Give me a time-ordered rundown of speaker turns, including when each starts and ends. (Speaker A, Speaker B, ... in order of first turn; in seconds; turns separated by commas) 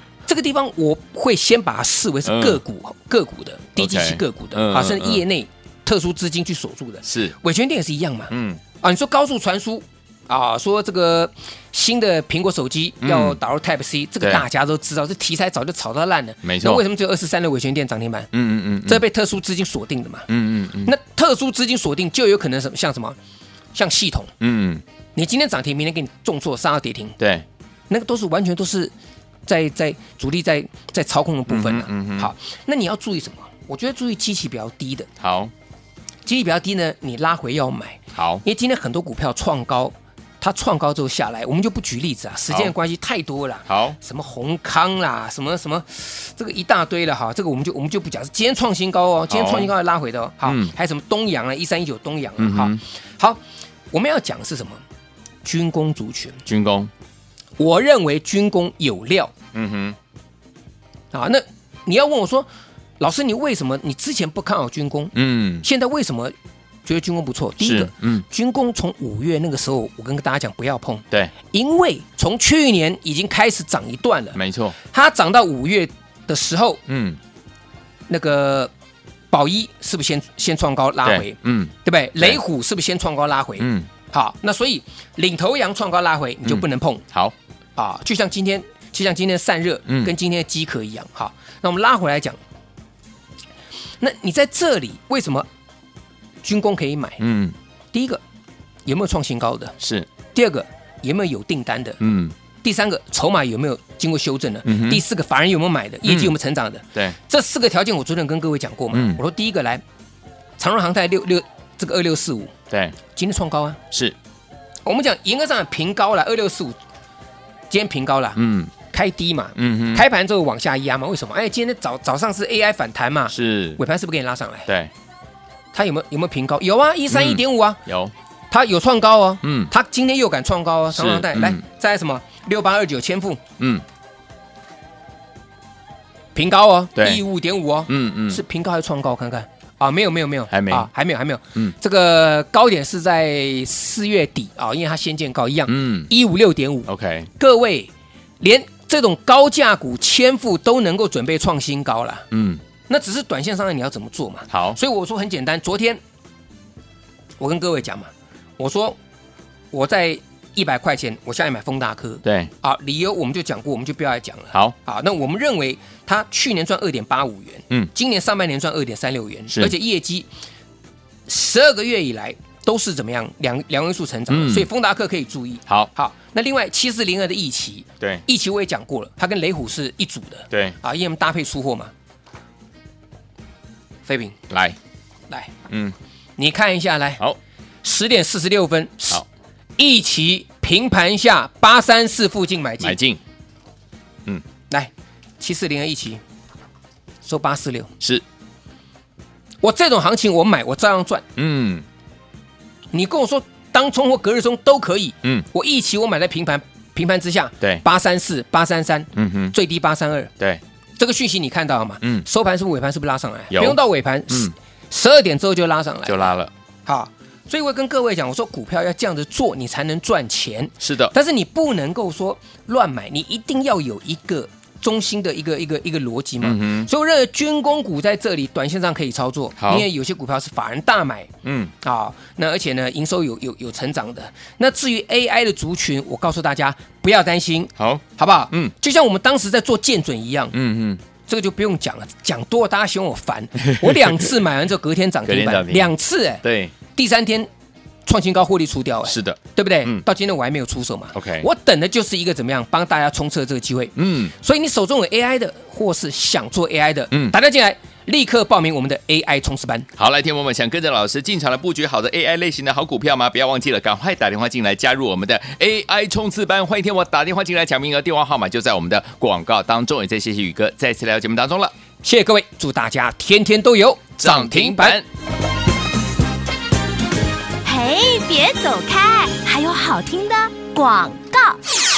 Speaker A: 0.2-18.3, Speaker B: 2.2-2.6, Speaker B: 3.8-5.2, Speaker B: 7.0-7.3, Speaker B: 8.3-8.6, Speaker B: 13.0-13.4, Speaker B: 16.4-16.8, Speaker B: 18.3-19.0, Speaker A: 18.9-20.3, Speaker B: 20.3-20.9, Speaker A: 20.8-23.2, Speaker A: 23.7-24.3, Speaker B: 24.4-24.8, Speaker A: 25.1-27.2, Speaker B: 27.2-27.4, Speaker A: 27.9-28.9, Speaker A: 29.5-35.1, Speaker B: 31.5-32.3, Speaker B: 35.2-35.5, Speaker A: 36.2-53.4, Speaker B: 38.1-38.4, Speaker B: 43.7-44.0, Speaker B: 49.3-49.7, Speaker B: 50.4-50.7, Speaker B: 52.4-52.8, Speaker A: 53.9-54.8, Speaker A: 55.4-56.4, Speaker B: 56.5-56.9, Speaker A: 57.6-59.3, Speaker B: 59.5-60.0, Speaker A: 61.1-62.5, Speaker A: 63.0-66.3, Speaker B: 65.1-65.6, Speaker A: 66.8-76.8, Speaker B: 67.6-68.2, Speaker B: 74.3-74.8, Speaker B: 76.9-77.2, Speaker A: 78.1-78.7, Speaker A: 79.3-87.0, Speaker B: 81.0-82.4, Speaker B: 83.6-83.9, Speaker B: 86.5-87.3, Speaker A: 87.8-92.4, Speaker B: 89.9-90.1, Speaker A: 94.0-95.5, Speaker A: 96.4-97.2, Speaker B: 97.2-97.5, Speaker A: 97.9-98.2, Speaker A: 98.8-99.8, Speaker B: 99.8-100.1, Speaker A: 100.3-102.0, Speaker B: 102.0-102.3, Speaker A: 102.6-109.8, Speaker B: 104.6-105.0, Speaker B: 106.0-106.3, Speaker B: 108.9-109.2, Speaker A: 110.6-112.5, Speaker B: 112.7-113.0, Speaker A: 113.1-113.8, Speaker A: 114.8-116.8, Speaker A: 117.7-124.7, Speaker B: 118.4-118.7, Speaker B: 119.6-120.0, Speaker B: 123.3-123.8, Speaker A: 125.7-127.8, Speaker B: 127.1-128.1, Speaker A: 128.5-133.4, Speaker B: 129.4-129.7, Speaker B: 130.9-131.6, Speaker B: 133.6-133.8, Speaker A: 136.3-152.2, Speaker B: 136.9-137.2, Speaker B: 137.9-138.4, Speaker B: 140.5-140.9, Speaker B: 145.7-146.1, Speaker B: 146.9-147.3, Speaker B: 152.3-152.6, Speaker A: 152.9-156.0, Speaker B: 154.5-154.8, Speaker A: 157.4-159.0, Speaker A: 159.7-170.3, Speaker B: 162.2-162.5, Speaker A: 171.3-181.9, Speaker B: 174.3-174.7, Speaker B: 180.5-180.8, Speaker A: 184.1-184.4, Speaker B: 184.5-184.8, Speaker B: 185.7-185.9, Speaker A: 186.4-187.2, Speaker A: 187.8-189.2, Speaker A: 189.8-193.0, Speaker B: 192.8-193.2, Speaker A: 194.7-196.2, Speaker A: 197.2-197.9, Speaker A: 199.6-201.2, Speaker B: 201.3-201.8, Speaker A: 202.9-210.3, Speaker B: 209.1-209.5, Speaker A: 211.0-240.5, Speaker B: 213.5-213.8, Speaker B: 216.1-216.5, Speaker B: 220.8-221.1, Speaker B: 226.4-226.9, Speaker B: 229.6-229.9, Speaker B: 231.4-231.7, Speaker B: 237.8-238.7, Speaker B: 240.5-241.0, Speaker A: 241.2-247.5, Speaker B: 243.6-244.3, Speaker B: 245.2-246.7, Speaker A: 248.1-259.9, Speaker B: 249.1-250.0, Speaker B: 251.1-251.5, Speaker B: 253.9-254.3, Speaker B: 260.0-271.7, Speaker A: 272.0-275.0, Speaker B: 274.2-275.1, Speaker C: 277.6-281.6